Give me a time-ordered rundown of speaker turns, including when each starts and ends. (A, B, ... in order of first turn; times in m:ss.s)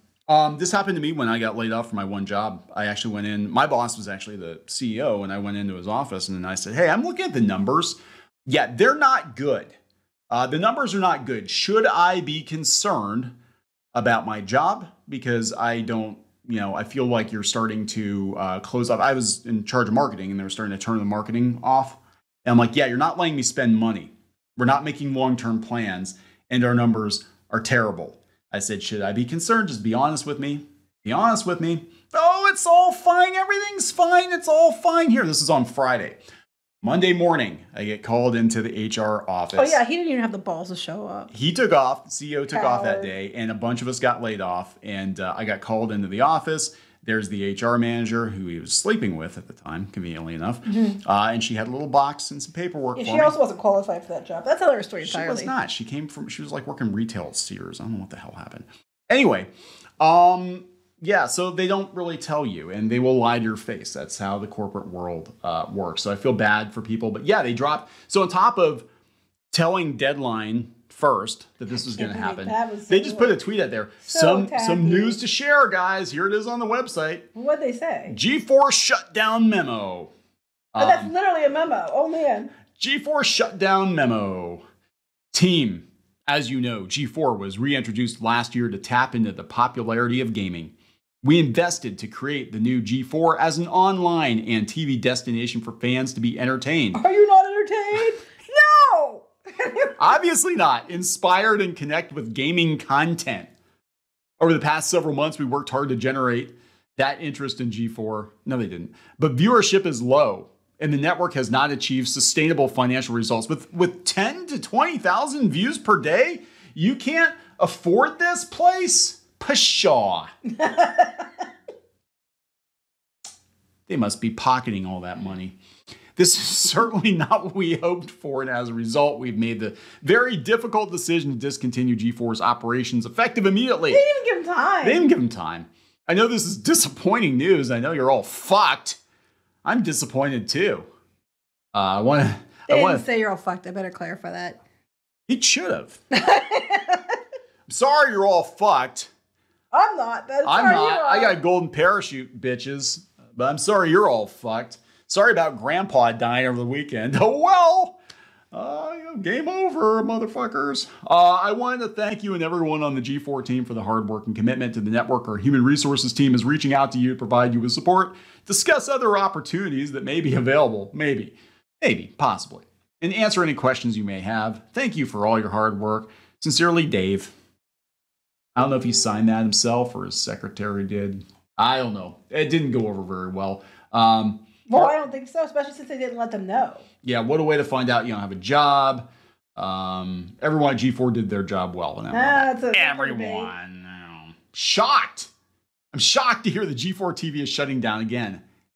0:00.3-0:09.8 A
0:10.3-0:13.3 A
0:13.9-0:36.2 A
0:36.8-0:39.8 A
0:39.5-0:41.3 B
0:41.3-0:53.4 A
0:42.5-0:43.1 B
0:52.9-0:55.5 B
0:55.0-0:59.5 A
1:00.0-1:08.9 A
1:09.5-1:17.3 A
1:11.8-1:13.4 B
1:14.1-1:15.2 B
1:17.4-1:18.2 B
1:18.1-1:20.1 A
1:20.7-1:21.1 A
1:20.8-1:22.5 B
1:22.8-1:24.6 A
1:25.3-1:37.0 A
1:36.9-1:40.2 B
1:40.0-1:43.5 A
1:44.4-2:00.3 A
2:00.6-2:01.4 B
2:03.9-2:05.6 A
2:06.2-2:14.0 A
2:13.9-2:15.1 B
2:14.8-2:19.0 A
2:19.6-2:20.9 A
2:21.7-2:23.0 A
2:22.7-2:24.6 B
2:25.3-2:26.0 A
2:26.1-2:27.2 B
2:27.7-2:29.1 A
2:29.7-2:31.4 B
2:30.4-2:38.0 A
2:38.5-2:57.4 A
2:58.6-3:04.9 A
3:04.7-3:06.8 B
3:07.0-3:15.3 A
3:12.1-3:13.5 B
3:15.9-3:18.4 A